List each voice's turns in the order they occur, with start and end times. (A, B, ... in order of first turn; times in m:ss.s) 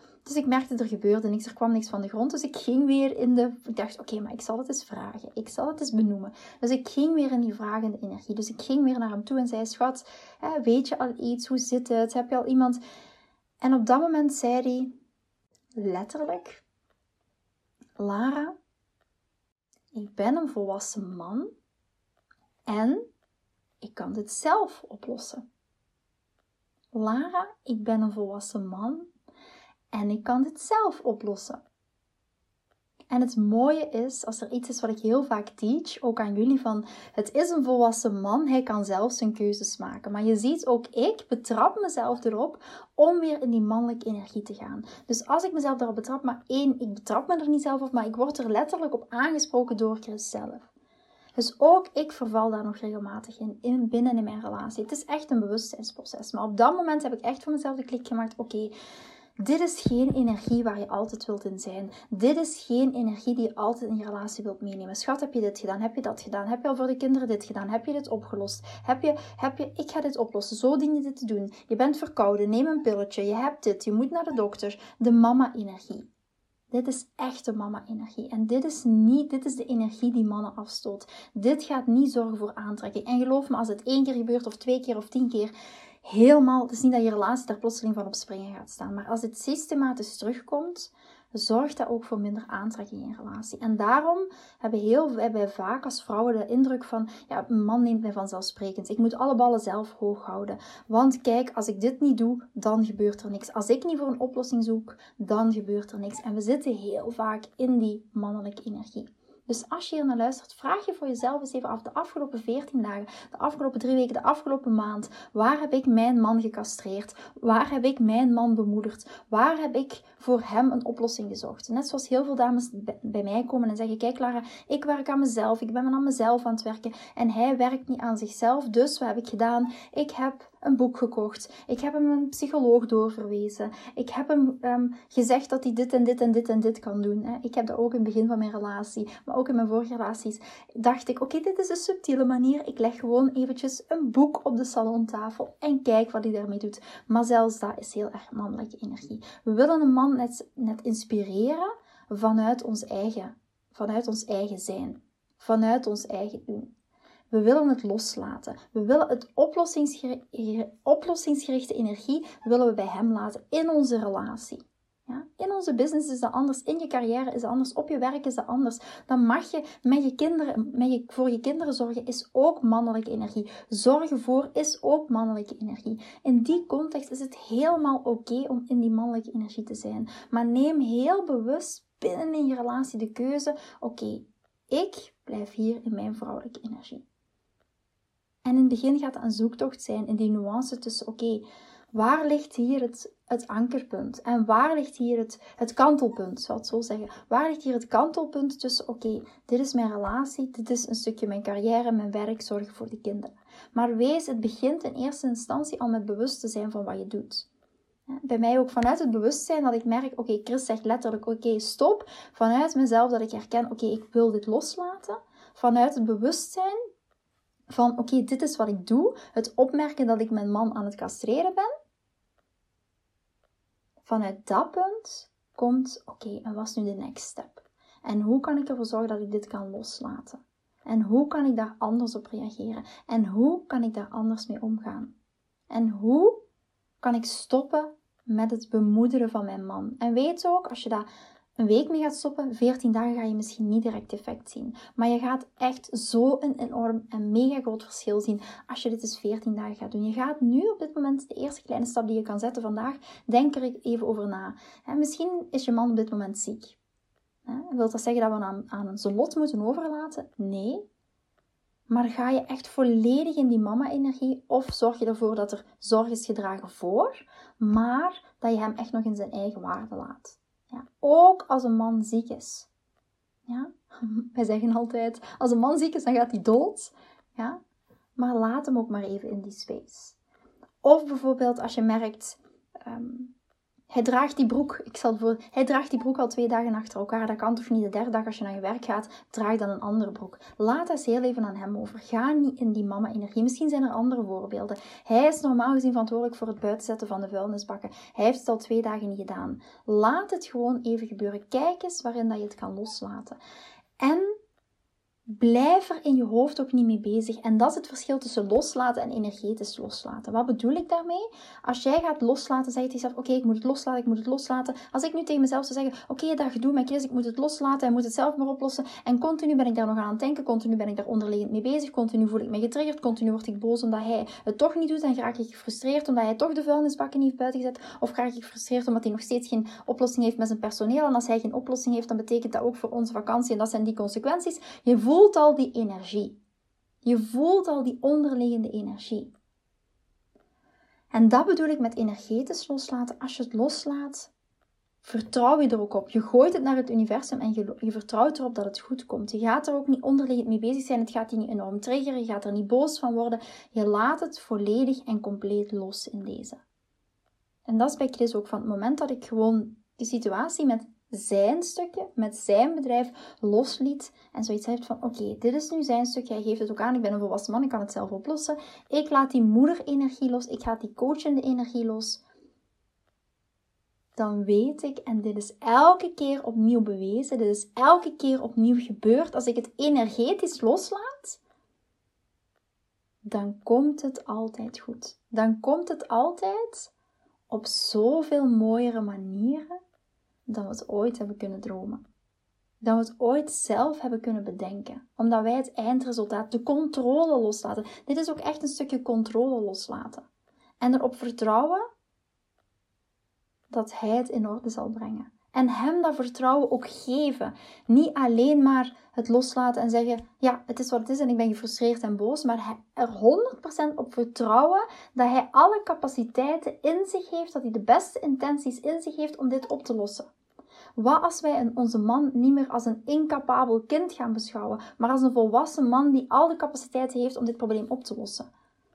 0:00.2-0:12.8 A
0:13.6-0:14.9 A
0:15.8-0:16.6 A
0:18.0-0:18.5 A
0:19.9-0:21.5 A
0:22.7-0:23.0 A
0:23.8-0:25.4 A
0:26.9-0:29.1 A
0:29.9-0:31.6 A
0:33.1-0:50.7 A
0:51.4-0:58.7 A
0:59.4-1:16.1 A
1:16.7-1:25.5 A
1:26.0-2:36.7 A
2:37.3-3:07.0 A
3:08.4-3:27.5 A
3:28.1-3:36.8 A
3:37.7-3:41.7 A
3:44.0-3:55.1 A
3:55.7-3:56.4 A
3:57.0-4:01.1 A
4:01.6-4:16.8 A
4:17.4-4:20.8 A
4:21.9-4:32.7 A
4:33.5-4:37.6 A
4:38.2-4:40.2 A
4:40.8-4:43.3 A
4:43.9-5:03.4 A
5:04.0-5:04.3 A
5:05.3-5:36.4 A
5:37.0-5:39.3 A
5:41.1-5:44.3 A
5:45.0-5:56.6 A
5:57.6-6:12.2 A
6:14.2-6:21.4 A
6:23.2-6:26.9 A
6:27.5-6:29.7 A
6:30.5-6:32.0 A
6:32.8-6:40.2 A
6:40.8-6:41.8 A
6:43.7-7:00.3 A
7:01.0-7:08.5 A